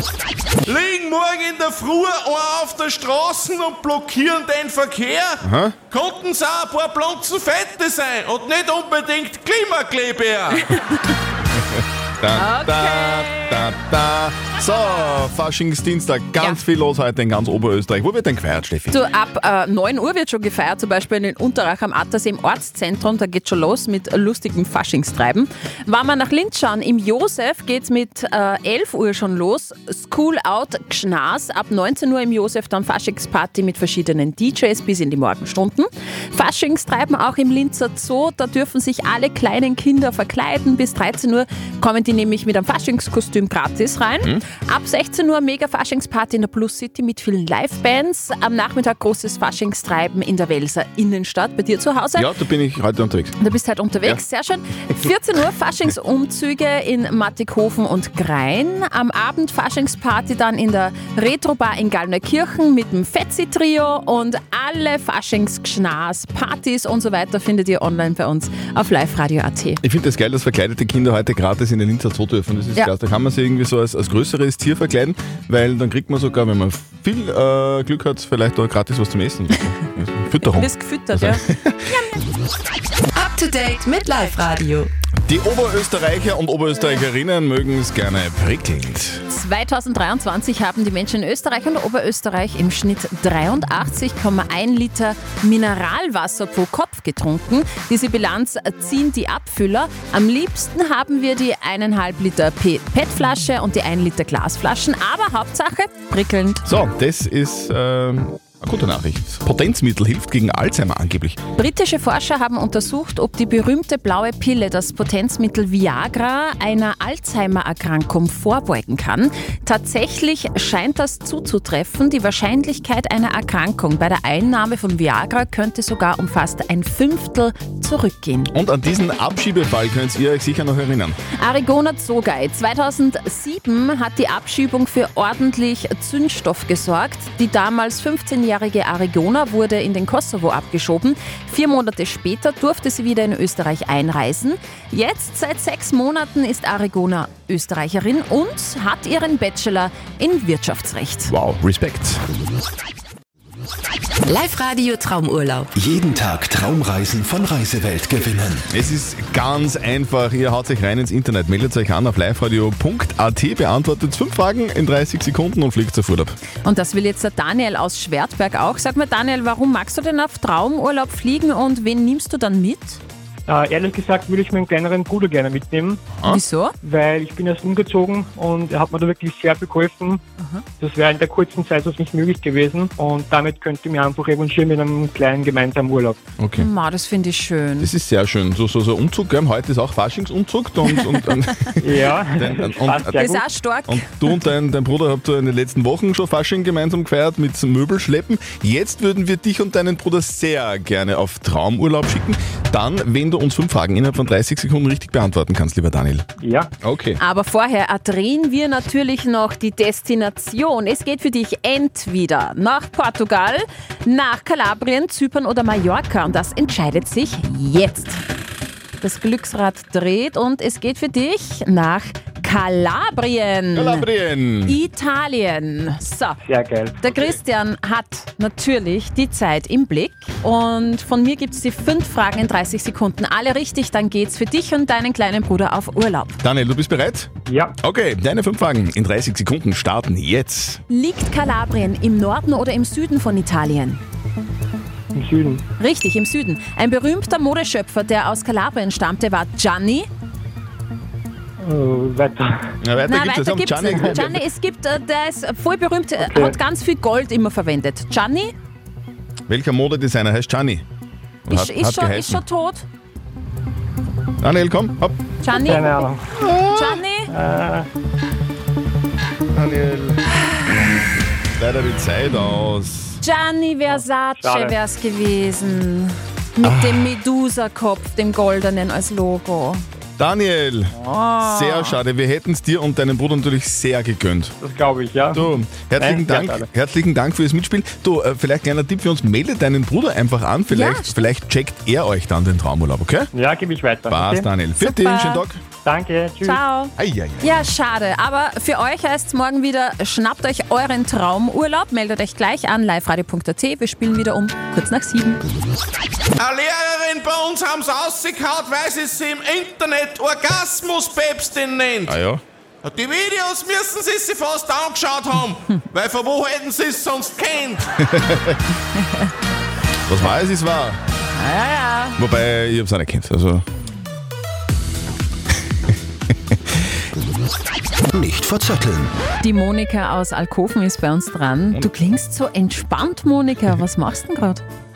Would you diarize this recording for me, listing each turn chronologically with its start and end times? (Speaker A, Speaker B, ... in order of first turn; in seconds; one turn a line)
Speaker A: 0.7-10.6
Speaker B: 5.4-5.8
Speaker C: 10.6-11.1
Speaker B: 12.2-19.0
Speaker C: 12.3-13.7
Speaker C: 18.9-52.3
Speaker B: 52.2-53.4
Speaker C: 53.4-69.8
Speaker B: 69.8-81.9
Speaker C: 80.5-82.2
Speaker D: 83.5-84.8
Speaker B: 85.2-89.2
Speaker C: 89.3-106.7
Speaker B: 106.6-111.4
Speaker C: 111.6-128.5
Speaker B: 128.5-131.2
Speaker C: 131.4-151.3
Speaker B: 151.3-152.2
Speaker D: 154.4-155.6
Speaker E: 155.7-158.7
Speaker B: 158.7-166.4
Speaker C: 166.6-173.0
Speaker F: 173.5-176.0
Speaker C: 176.2-176.8
Speaker F: 176.8-180.2
Speaker C: 180.4-180.6
Speaker F: 180.8-186.2
Speaker B: 186.4-186.7
Speaker C: 186.6-187.9
Speaker B: 187.8-193.3
Speaker F: 191.8-193.4
Speaker C: 193.1-194.1
Speaker B: 193.9-206.2
Speaker F: 206.4-206.7
Speaker B: 206.8-207.2
Speaker C: 207.2-218.2
Speaker C: 219.0-224.1
Speaker B: 223.8-224.8
Speaker C: 224.6-226.4
Speaker F: 226.4-227.3
Speaker C: 227.0-236.4
Speaker B: 236.4-237.3
Speaker F: 237.5-237.7
Speaker B: 237.8-240.8
Speaker C: 240.9-244.0
Speaker F: 245.1-245.6
Speaker C: 245.8-250.1
Speaker F: 251.6-252.6
Speaker B: 252.8-254.3
Speaker C: 253.1-258.5
Speaker F: 256.2-256.6
Speaker B: 259.5-260.9
Speaker B: 261.5-262.4
Speaker C: 261.5-262.9
Speaker B: 264.4-265.2
Speaker C: 265.4-266.1
Speaker F: 265.5-266.2
Speaker B: 266.4-267.0
Speaker C: 266.7-267.3
Speaker F: 267.3-267.9
Speaker B: 269.5-270.2
Speaker B: 271.6-273.2
Speaker C: 273.2-279.8
Speaker F: 273.9-274.8
Speaker B: 276.6-277.1
Speaker B: 280.2-284.5
Speaker C: 280.9-282.0
Speaker F: 284.6-286.7
Speaker B: 285.3-293.3
Speaker C: 290.7-291.1
Speaker F: 293.3-294.5
Speaker B: 294.1-295.6
Speaker C: 294.8-295.4
Speaker F: 295.9-296.6
Speaker C: 296.4-305.4
Speaker B: 297.0-297.5
Speaker A: 306.4-312.2
Speaker B: 312.1-312.4
Speaker A: 312.8-317.9
Speaker B: 318.0-318.6
Speaker B: 320.1-321.0
Speaker C: 321.2-322.2
Speaker B: 322.2-323.6
Speaker E: 328.1-329.1
Speaker C: 329.4-334.6